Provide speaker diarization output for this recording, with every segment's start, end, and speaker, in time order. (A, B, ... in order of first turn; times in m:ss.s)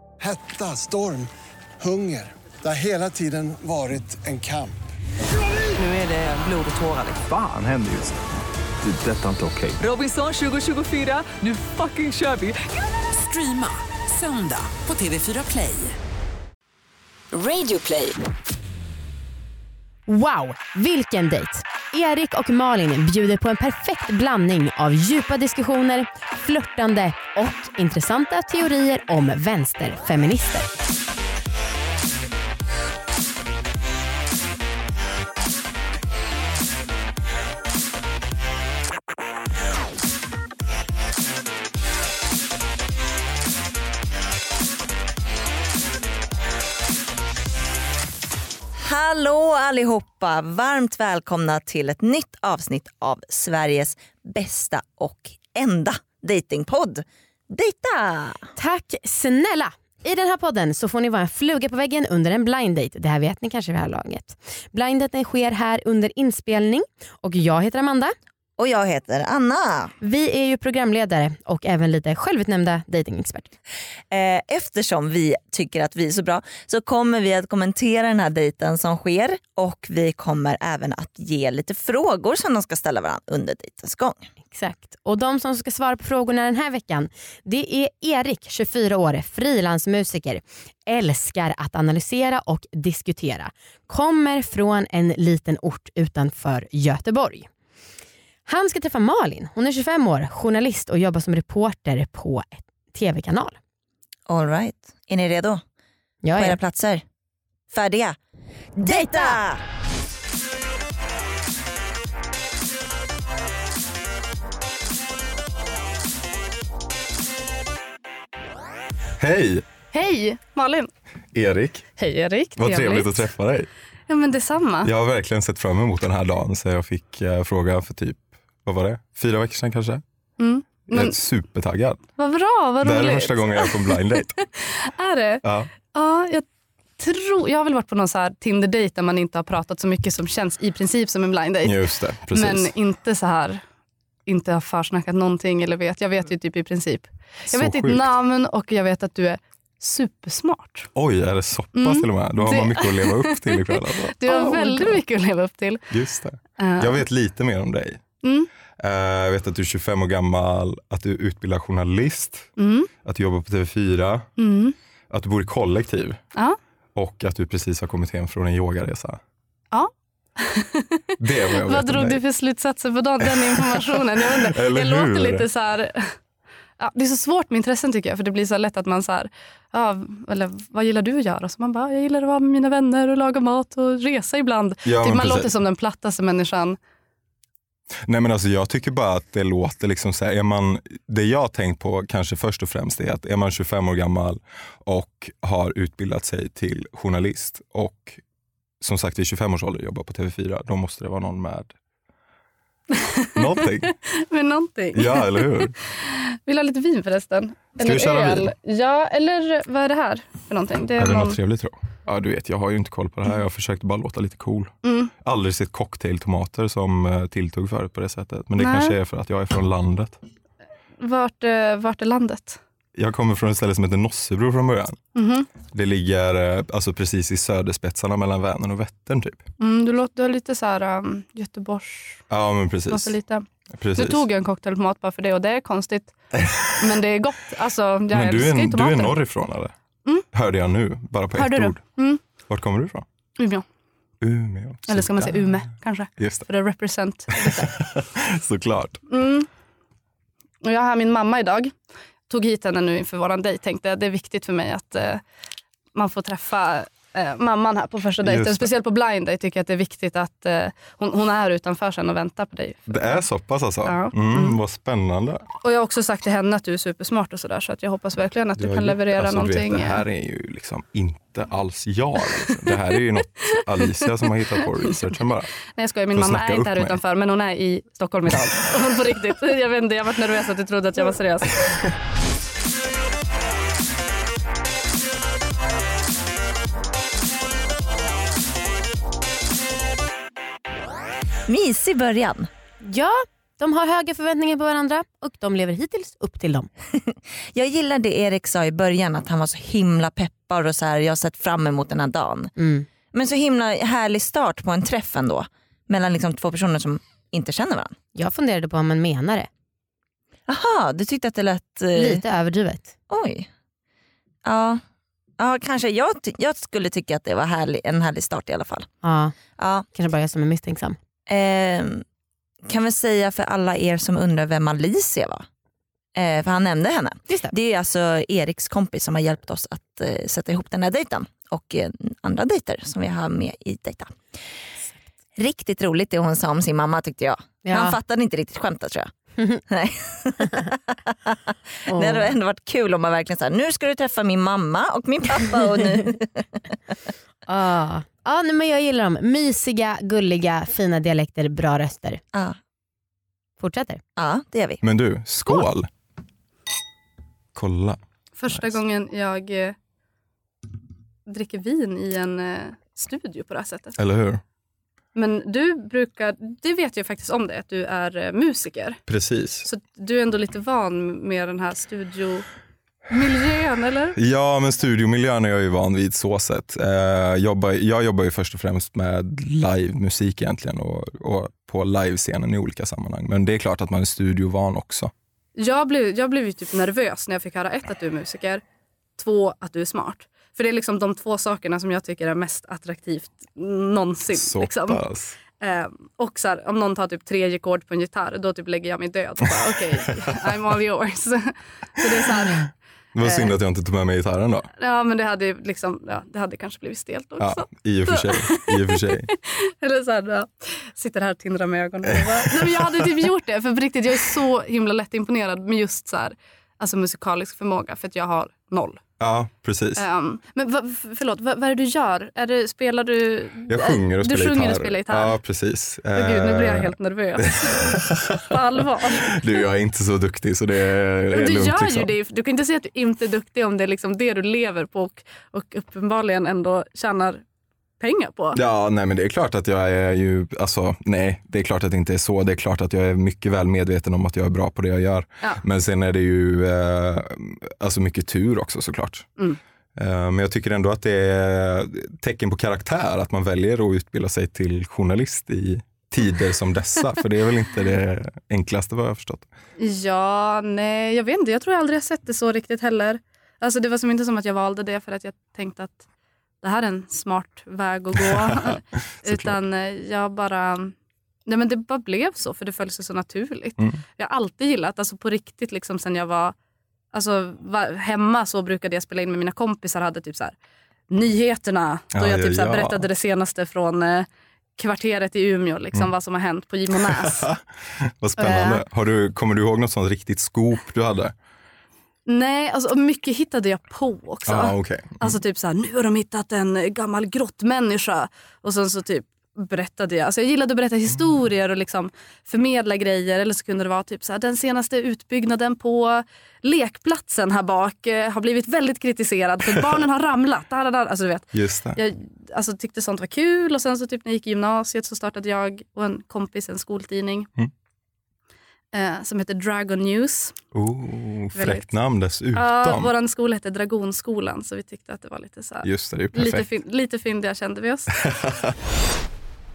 0:00.2-0:01.3 A
0:01.8-0:04.8 A
0:05.8-0:07.2 B
0:07.2-0:08.2 C
0:08.8-0:09.8 C
0:09.8-0:16.0 B
0:17.3-0:18.2 B
0:20.1-0:30.7 D
0:48.8-0:58.5 E
0:58.6-1:08.1 D
1:08.6-1:09.9 E
1:10.0-1:13.5 D
1:14.1-1:24.3 E
1:24.5-1:37.5 D
1:38.5-1:43.6 D
1:44.3-1:45.6 E
1:46.2-1:46.6 D
1:46.4-1:47.0 E
1:47.7-1:48.2 E
1:48.8-1:49.6 E
1:48.8-1:49.4 D
1:59.2-1:59.6 F
1:59.9-2:00.9 G
2:01.3-2:01.9 F
2:02.0-2:03.1 G
2:02.6-2:03.7 F
2:04.1-2:04.9 G
2:04.8-2:10.0 F
2:10.4-2:11.2 G
2:10.9-2:12.0 F
2:12.2-2:16.4 G
2:12.8-2:14.4 F
2:15.4-2:15.7 F
2:17.0-2:23.6 G
2:21.6-2:22.7 F
2:24.2-2:30.9 G
2:27.5-2:28.2 F
2:30.9-2:35.0 F
2:31.7-2:35.8 G
2:35.9-2:38.0 F
2:36.6-2:37.0 G
2:38.2-2:38.5 G
2:38.8-2:42.5 F
2:42.6-2:42.9 G
2:43.0-2:44.3 F
2:44.4-2:44.8 G
2:45.1-2:46.2 F
2:46.9-2:49.2 F
2:49.7-2:56.2 G
2:51.2-2:52.2 F
2:53.2-2:55.4 F
2:56.8-3:06.8 G
3:04.8-3:05.5 F
3:08.0-3:18.2 F
3:18.8-3:21.7 F
3:22.9-3:31.4 G
3:23.4-3:23.9 F
3:24.9-3:25.7 F
3:27.8-3:28.5 F
3:31.0-3:40.2 F
3:34.8-3:35.1 G
3:38.6-3:39.0 G
3:41.0-3:42.6 G
3:43.0-3:45.0 F
3:45.1-3:45.5 G
3:45.7-3:49.4 F
3:49.6-3:52.2 G
3:52.3-3:53.1 F
3:52.9-3:59.2 G
3:53.7-3:54.2 F
3:58.1-3:59.7 F
4:00.3-4:01.8 F
4:01.3-4:02.2 G
4:02.5-4:03.0 F
4:03.4-4:03.6 G
4:04.2-4:05.6 F
4:04.9-4:07.7 G
4:06.2-4:06.5 F
4:07.3-4:09.0 F
4:09.1-4:09.5 G
4:10.6-4:11.7 G
4:12.3-4:15.2 G
4:15.9-4:23.1 G
4:18.2-4:18.7 F
4:22.9-4:25.4 F
4:23.8-4:24.6 G
4:25.6-4:30.0 G
4:28.6-4:35.5 F
4:34.0-4:34.3 G
4:34.8-4:35.1 G
4:35.7-4:41.6 G
4:36.1-4:37.0 F
4:51.5-4:52.5 E
4:52.8-4:56.7 D
4:57.5-5:02.5 E
5:02.6-5:02.9 D
5:03.1-5:08.0 E
5:08.1-5:09.5 D
5:10.5-5:12.2 E
5:11.9-5:12.9 D
5:13.1-5:13.5 E
5:14.4-5:14.8 E
5:15.4-5:18.9 E
5:19.0-5:19.3 D
5:19.6-5:19.8 E
5:19.9-5:21.0 D
5:21.3-5:22.0 E
5:22.6-5:25.4 E
5:26.2-5:34.1 E
5:35.4-5:39.1 E
5:37.6-5:38.0 D
5:39.7-5:41.4 E
5:41.9-5:42.3 D
5:41.9-5:46.6 E
5:47.5-5:52.2 D
5:53.6-5:54.0 D
5:54.2-5:54.8 E
5:54.8-5:55.9 F
5:57.5-5:58.0 F
5:58.4-5:59.7 G
6:01.3-6:04.0 G
6:04.0-6:04.4 F
6:05.1-6:09.0 G
6:09.1-6:09.7 F
6:09.6-6:12.4 G
6:13.1-6:14.2 G
6:14.2-6:25.1 F
6:25.6-6:28.6 G
6:29.2-6:35.0 G
6:34.3-6:35.4 F
6:35.6-6:43.5 G
6:43.1-6:44.7 F
6:44.8-6:59.0 G
6:47.4-6:49.3 F
6:52.1-6:53.1 F
6:59.2-7:00.0 F
7:00.0-7:05.3 G
7:03.7-7:08.6 F
7:06.1-7:09.6 G
7:09.2-7:12.1 F
7:11.3-7:17.4 G
7:18.0-7:18.6 G
7:18.5-7:29.3 F
7:30.0-7:39.5 F
7:39.8-7:46.0 G
7:46.6-7:50.9 G
7:48.2-7:49.6 F
7:51.4-7:56.5 G
7:57.1-8:00.5 G
8:01.1-8:07.5 G
8:02.1-8:03.0 F
8:07.0-8:11.3 F
8:08.4-8:08.8 G
8:12.3-8:37.5 G
8:14.4-8:15.4 F
8:31.5-8:32.0 F
8:38.9-8:40.6 G
8:40.7-8:43.1 F
8:41.5-8:41.8 G
8:42.5-8:48.2 G
8:45.8-8:46.7 F
8:48.2-8:48.7 F